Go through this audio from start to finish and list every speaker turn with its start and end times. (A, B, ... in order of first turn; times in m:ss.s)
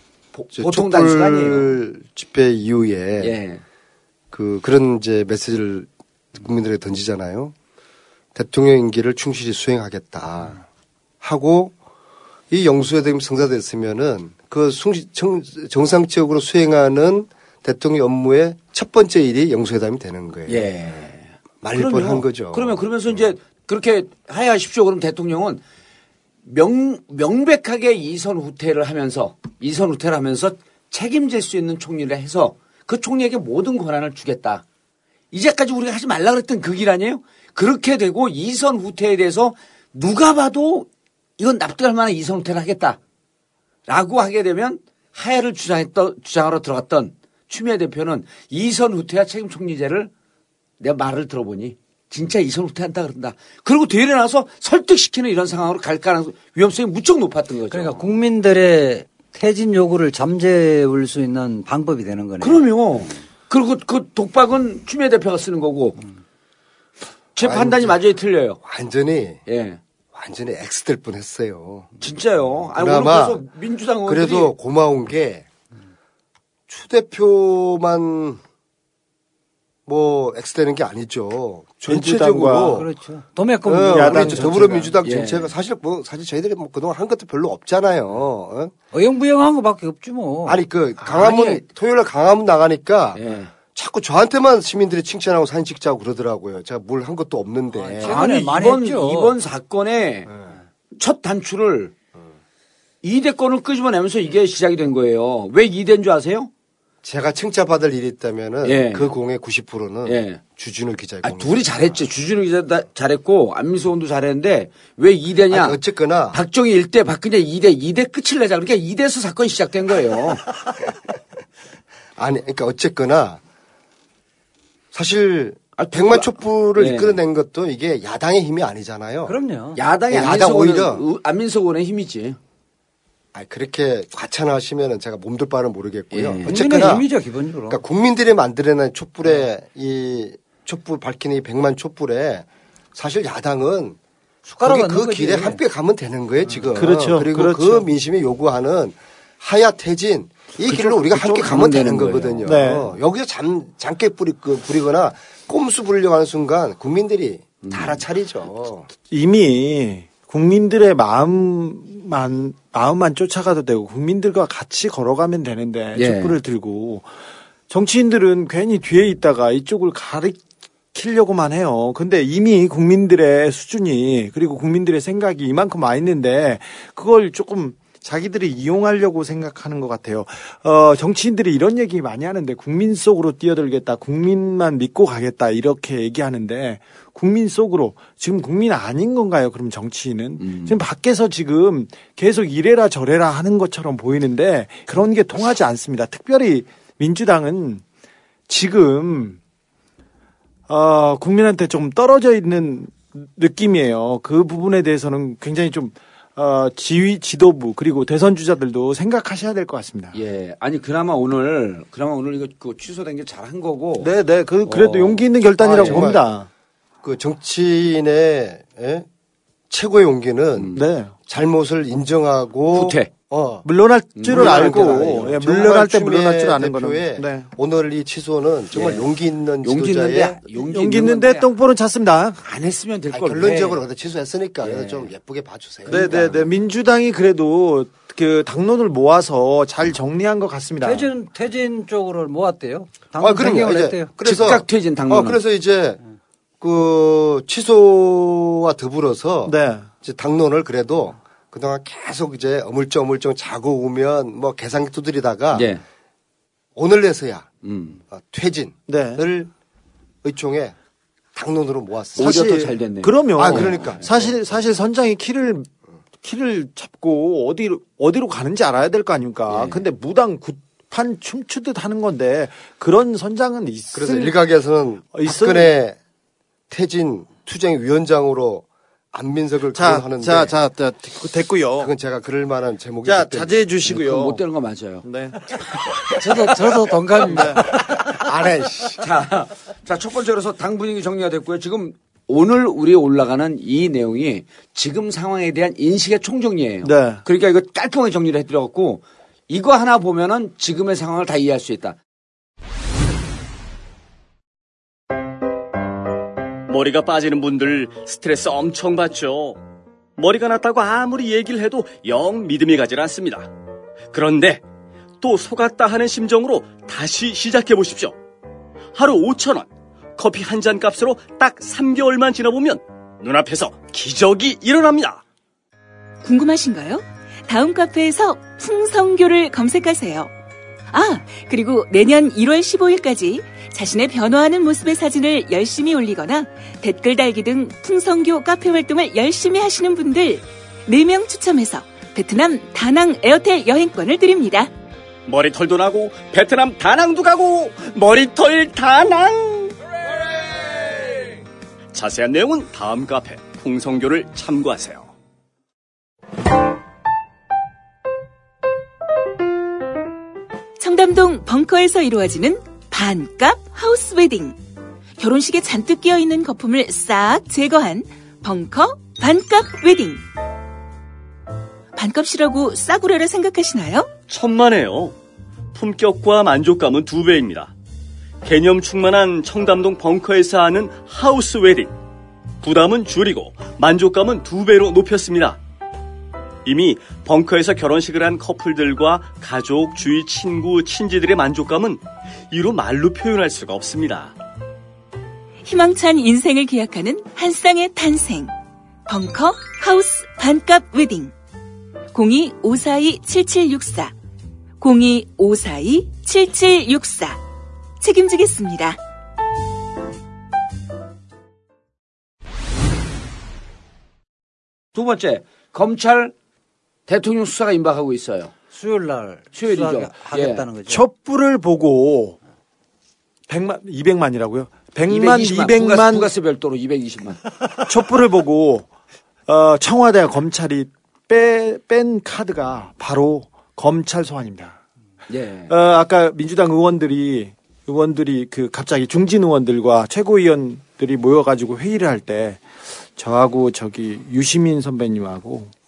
0:00.4-0:01.8 A
0:00.5-0:03.4 B
0:03.2-0:03.6 A
0:04.3-0:07.5 B
0:08.4-0:10.6 B
0:11.2-0:11.7 B
0:12.5-0:20.7 B
0:20.5-0:25.6 A
0:21.6-0:22.8 B
0:26.5-0:34.6 A
0:35.3-0:43.0 A
0:43.9-0:50.1 A
0:50.8-0:58.0 A
0:57.7-1:02.6 C
1:02.4-1:06.0 A
1:07.4-1:08.6 A
1:07.4-1:08.0 B
1:08.6-1:09.4 B
1:09.5-1:09.8 A
1:10.1-1:11.9 B
1:12.0-1:14.5 A
1:12.8-1:13.4 B
1:14.1-1:15.5 B
1:16.7-1:18.4 B
1:19.9-1:22.9 B
1:21.9-1:22.8 D
1:22.7-1:24.9 C
1:23.7-1:28.7 B
1:23.9-1:24.9 D
1:25.0-1:25.5 A
1:28.9-1:30.6 C
1:30.5-1:38.2 B
1:31.0-1:31.3 D
1:31.3-1:31.6 C
1:33.2-1:33.5 A
1:37.8-1:39.4 C
1:38.0-1:40.4 A
1:41.0-1:41.9 A
1:43.0-1:46.5 A
1:47.0-1:51.6 B
1:48.6-1:49.2 A
1:50.1-1:50.4 A
1:51.2-1:55.8 A
1:55.5-1:56.4 B
1:56.3-2:00.5 A
2:02.2-2:03.4 B
2:04.9-2:09.4 B
2:05.8-2:07.2 A
2:09.3-2:09.8 C
2:09.8-2:12.4 A
2:10.1-2:11.0 B
2:13.3-2:17.1 B
2:16.1-2:16.9 A
2:16.5-2:17.8 C
2:17.7-2:24.0 B
2:24.5-2:25.6 C
2:24.6-2:38.9 B
2:26.8-2:27.9 D
2:30.7-2:32.5 A
2:32.5-2:32.9 D
2:37.7-2:38.0 A
2:39.1-2:47.1 D
2:46.0-2:46.4 A
2:47.7-2:50.4 D
2:50.9-3:17.8 D
3:10.4-3:10.8 A
3:18.5-3:19.4 D
3:20.7-3:30.2 D
3:30.1-3:34.1 A
3:34.0-3:36.5 D
3:34.6-3:36.2 A
3:35.6-3:36.2 B
3:37.0-3:39.1 B
3:39.7-3:40.7 B
3:40.6-3:40.8 A
3:40.8-3:41.1 D
3:41.3-3:43.7 B
3:42.7-3:43.1 A
3:43.6-3:47.5 D
3:44.2-3:45.3 A
3:44.2-3:50.4 B
3:48.7-3:49.1 A
3:49.6-3:51.5 A
3:50.6-3:52.4 D
3:52.4-3:53.8 A
3:53.1-3:56.5 B
3:54.6-3:55.1 A
3:55.9-4:01.1 D
3:55.9-3:56.3 A
4:00.8-4:04.1 C
4:03.2-4:06.0 B
4:04.2-4:05.4 A
4:06.6-4:15.7 B
4:09.5-4:09.9 D
4:15.5-4:15.8 A
4:16.8-4:17.5 B
4:17.6-4:18.0 A
4:18.1-4:19.5 B
4:18.9-4:19.2 D
4:20.2-4:20.8 B
4:21.3-4:22.7 B
4:22.2-4:24.0 A
4:22.2-4:25.7 D
4:23.4-4:24.4 B
4:26.2-4:34.3 D
4:29.5-4:29.8 A
4:33.9-4:36.0 B
4:35.1-4:35.7 D
4:36.7-4:40.6 B
4:39.8-4:41.9 D
4:41.8-4:43.6 B
4:43.0-4:44.4 D
4:43.8-4:45.6 A
4:45.0-4:46.5 D
4:46.2-4:47.8 C
4:47.2-4:49.0 D
4:48.6-4:48.9 B
4:49.0-5:02.0 A
4:56.8-4:57.2 D
5:06.7-5:09.6 E
5:10.2-5:13.5 E
5:14.1-5:14.6 E
5:15.2-5:18.2 E
5:18.9-5:25.2 E
5:26.2-5:30.3 F
5:30.9-5:44.7 F
5:45.3-5:49.8 E
5:50.4-5:51.4 E
5:51.9-5:55.1 E
6:00.8-6:04.6 F
6:05.2-6:10.2 F
6:12.0-6:14.1 F
6:14.3-6:15.2 E
6:15.7-6:17.7 E
6:18.4-6:21.9 E
6:22.6-6:25.6 E
6:26.6-6:34.4 E
6:35.6-6:38.5 F
6:39.1-6:41.3 F
6:42.1-6:44.1 F
6:44.8-6:47.4 F
6:48.0-6:49.0 F
6:54.9-6:56.3 A
6:57.1-6:58.5 A
6:58.7-7:01.0 C
6:59.6-7:00.7 A
7:00.9-7:02.4 D
7:03.5-7:06.3 D
7:05.1-7:07.4 A
7:07.9-7:08.9 D
7:09.5-7:14.8 D
7:15.3-7:15.7 A
7:15.7-7:25.7 D